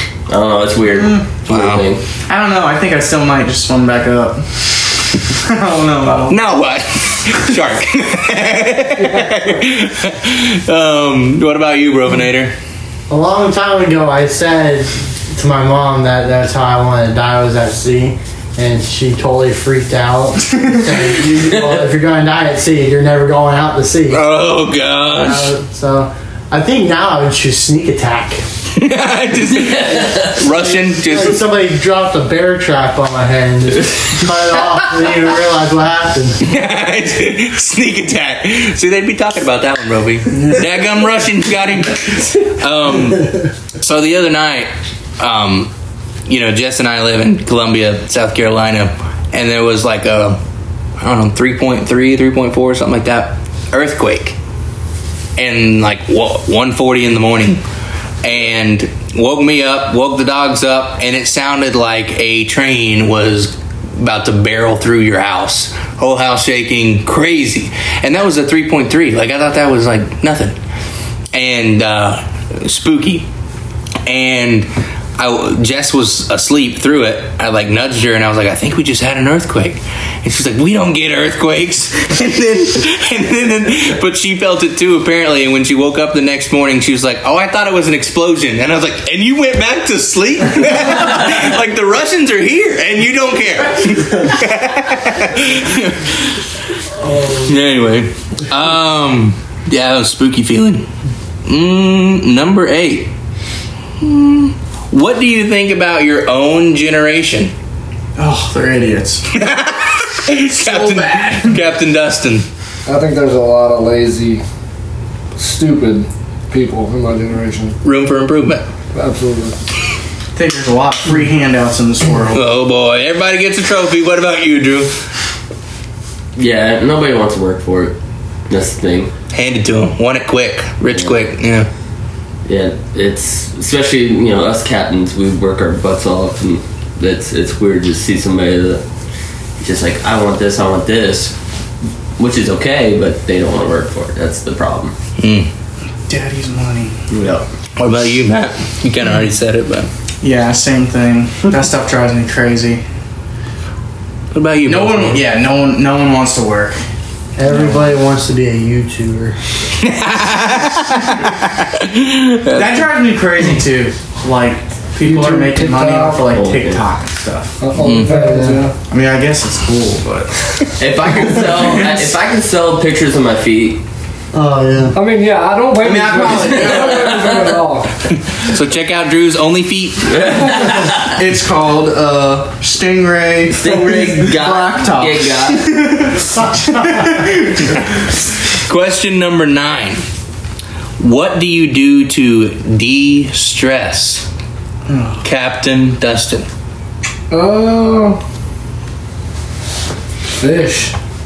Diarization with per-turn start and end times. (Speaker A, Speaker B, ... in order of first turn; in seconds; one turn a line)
Speaker A: 0.3-2.0
Speaker B: 1.0-1.2
Speaker C: 1.5-1.9
Speaker B: 2.3-6.4
Speaker C: 6.3-12.5
Speaker D: 9.0-9.4
Speaker E: 13.1-24.3
Speaker C: 24.1-25.5
Speaker E: 25.1-28.4
Speaker C: 28.8-31.5
Speaker A: 29.6-30.4
Speaker E: 30.8-36.5
Speaker C: 36.4-45.7
Speaker C: 46.3-50.4
Speaker C: 51.0-54.4
Speaker C: 55.4-57.6
Speaker C: 58.2-70.6
Speaker C: 71.3-73.3
Speaker C: 74.1-96.4
Speaker C: 97.3-100.9
Speaker C: 101.5-103.1
Speaker C: 104.0-107.5
Speaker B: 108.2-109.3
Speaker C: 109.3-112.5
Speaker B: 110.5-111.6
Speaker D: 112.9-114.4
Speaker D: 115.4-117.8
Speaker C: 117.8-118.7
Speaker D: 118.9-119.6
Speaker B: 120.3-122.4
Speaker C: 122.3-124.9
Speaker A: 126.4-128.0
Speaker A: 128.5-129.1
Speaker C: 129.3-131.7
Speaker A: 130.9-131.2
Speaker A: 132.4-138.8
Speaker A: 139.6-141.3
Speaker A: 142.2-144.9
Speaker C: 145.2-145.5
Speaker B: 146.1-147.4
Speaker A: 147.1-147.4
Speaker C: 147.8-149.9
Speaker B: 150.2-152.8
Speaker C: 154.3-155.2
Speaker B: 154.7-156.8
Speaker E: 157.4-159.4
Speaker C: 159.8-162.9
Speaker B: 162.5-167.6
Speaker D: 165.0-166.2
Speaker A: 166.3-166.8
Speaker D: 167.6-168.8
Speaker C: 167.8-168.1
Speaker E: 168.0-168.6
Speaker B: 168.9-170.7
Speaker A: 170.8-173.8
Speaker E: 174.3-175.0
Speaker D: 174.9-178.0
Speaker B: 175.8-177.4
Speaker A: 176.5-177.4
Speaker C: 178.4-180.6
Speaker A: 180.1-181.1
Speaker B: 181.1-187.8
Speaker A: 183.5-185.7
Speaker C: 188.7-190.0
Speaker C: 191.0-194.3
Speaker B: 194.9-195.2
Speaker C: 195.2-196.4
Speaker D: 197.3-198.2
Speaker D: 200.3-200.9